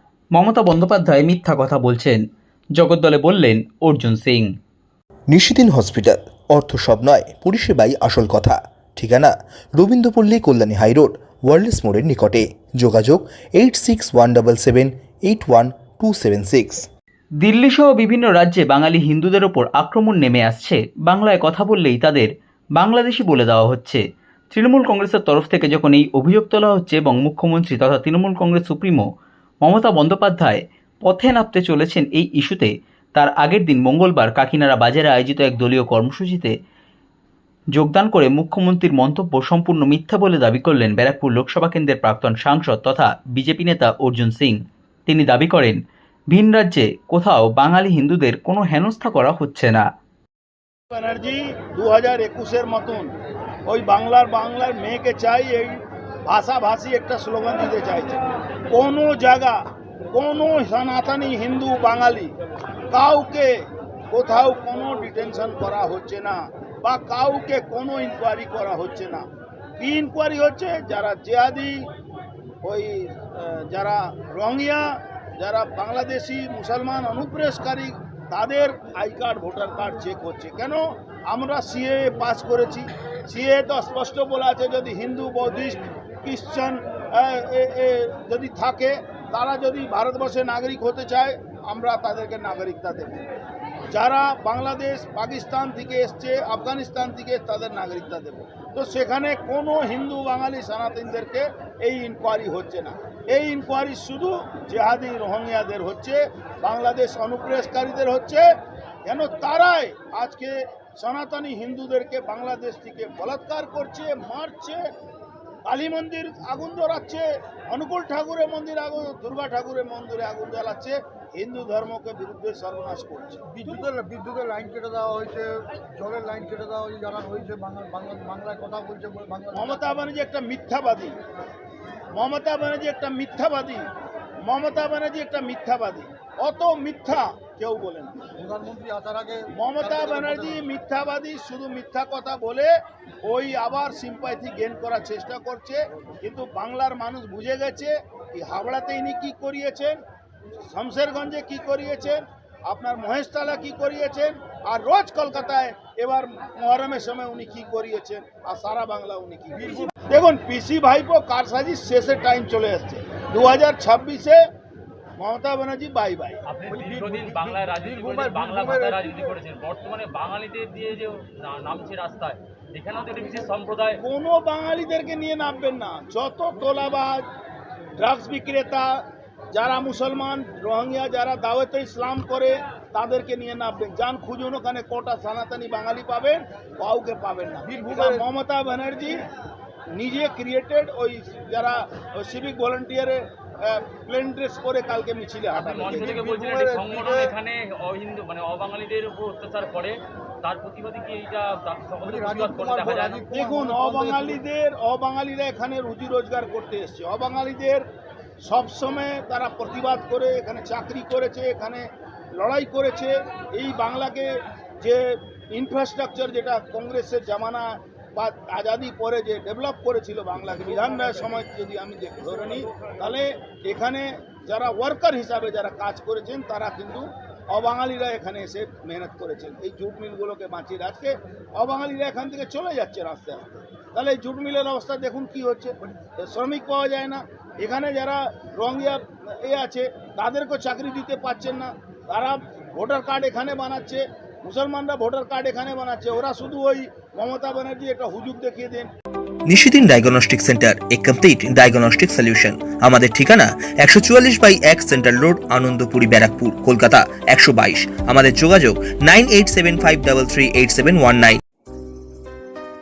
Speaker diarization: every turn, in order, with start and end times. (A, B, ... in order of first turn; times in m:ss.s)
0:00.3-0:02.2 A
0:02.8-0:04.5 A
0:05.3-0:16.9 B
0:17.4-0:29.0 A
0:29.6-0:36.5 A
0:37.7-0:45.8 A
0:46.3-0:49.8 A
0:50.9-0:53.1 C
0:53.7-0:59.6 C
1:00.1-1:02.4 C
1:02.9-1:03.5 C
1:04.1-1:09.2 C
1:09.8-1:11.8 C
1:12.6-1:14.9 C
1:15.4-1:33.2 C
1:33.9-1:48.4 C
1:49.0-1:54.8 C
1:55.6-2:03.9 C
2:03.5-2:10.0 D
2:09.5-2:11.2 C
2:12.1-2:13.9 C
2:14.4-2:18.3 C
2:18.4-2:20.7 D
2:19.6-2:22.7 C
2:23.2-2:30.0 C
2:30.7-2:44.4 C
2:39.6-2:39.9 D
2:45.2-2:46.5 C
2:46.5-2:54.0 E
2:46.7-2:49.3 D
2:54.0-2:57.2 C
2:58.0-2:59.0 C
2:59.5-3:09.3 C
3:07.6-3:08.2 D
3:09.9-3:16.2 C
3:15.5-3:23.2 E
3:15.9-3:17.3 D
3:22.0-3:24.4 D
3:23.3-3:27.8 C
3:28.4-3:31.8 C
3:32.4-3:34.3 C
3:34.8-4:08.9 C
4:09.5-4:21.4 B